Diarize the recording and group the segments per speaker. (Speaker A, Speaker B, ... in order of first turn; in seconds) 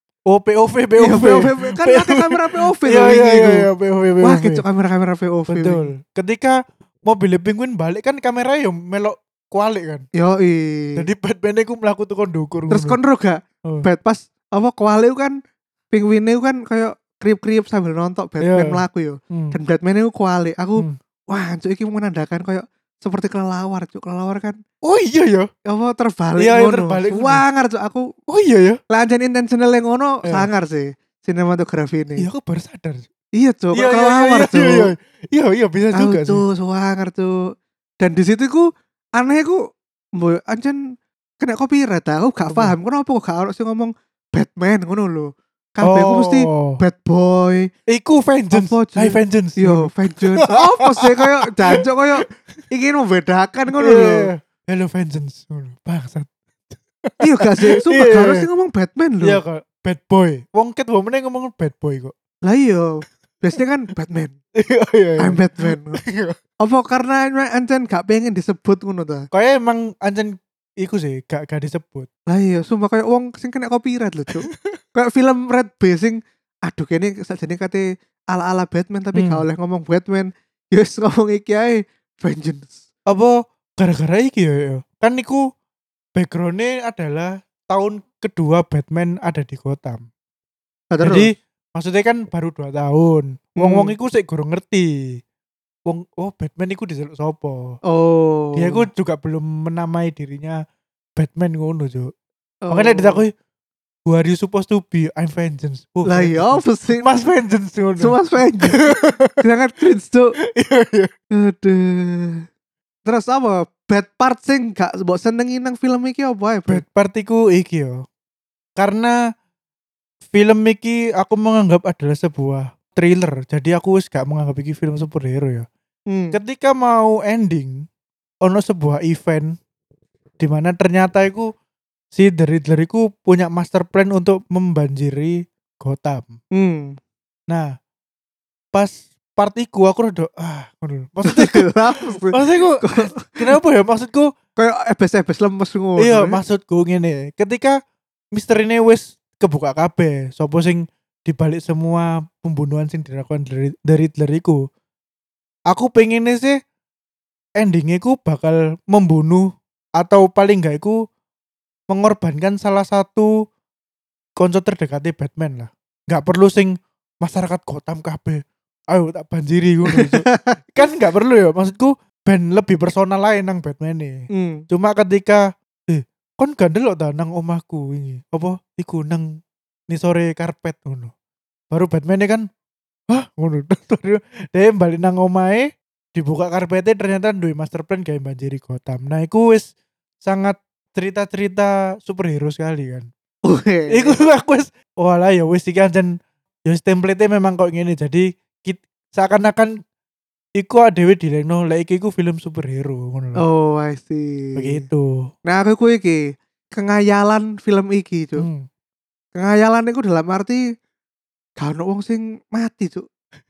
Speaker A: 0.3-4.6, 5.5-10.1, 11.0-13.0, 18.4-19.6, 24.9-25.5, 26.4-27.4, 28.3-28.8, 32.2-33.1, 33.7-36.4, 42.5-42.8, 45.8-46.8, 47.9-51.9, 53.8-58.5, 59.2-62.1, 64.6-66.4, 69.3-72.1, 79.2-79.5, 83.1-85.4, 86.2-90.1, 91.0-95.2, 95.9-97.8, 98.6-100.6, 101.2-102.1, 102.7-103.3, 104.1-109.4, 110.6-111.1, 116.7-118.0, 118.8-119.2, 120.3-125.7, 126.3-127.8, 128.4-129.6, 130.4-131.5, 132.1-136.4, 138.7-141.7, 142.3-144.3, 146.0-147.8, 148.3-154.6, 155.7-156.6, 157.6-161.0, 161.9-163.3, 164.4-179.3, 179.9-181.1, 181.7-182.5, 183.1-189.7, 190.2-193.1, 193.9-196.2, 196.7-199.8, 200.6-203.4, 204.6-205.1, 208.4-208.7
Speaker B: 1.0-3.7, 4.2-5.9, 10.2-11.1, 12.7-15.4, 15.9-24.6, 25.7-28.1, 28.9-32.3, 33.4-34.9, 36.0-37.3, 38.0-39.6, 40.2-40.8, 41.4-47.7, 48.5-54.3, 57.2-59.4, 62.4-64.4, 65.2-66.0, 66.6-69.3, 72.3-82.8, 90.9-91.3, 93.6-93.9, 97.9-98.8, 102.6-103.2, 106.1-107.1, 108.0-110.3, 111.4-112.4, 113.0-116.8, 126.1-126.4, 136.5-137.0, 141.3-143.3, 144.6-146.4, 169.9-170.6, 174.3-174.6, 193.5-194.2, 203.4-204.8, 205.5-206.2, 206.7-208.5, 209.3-210.6, 211.6-213.1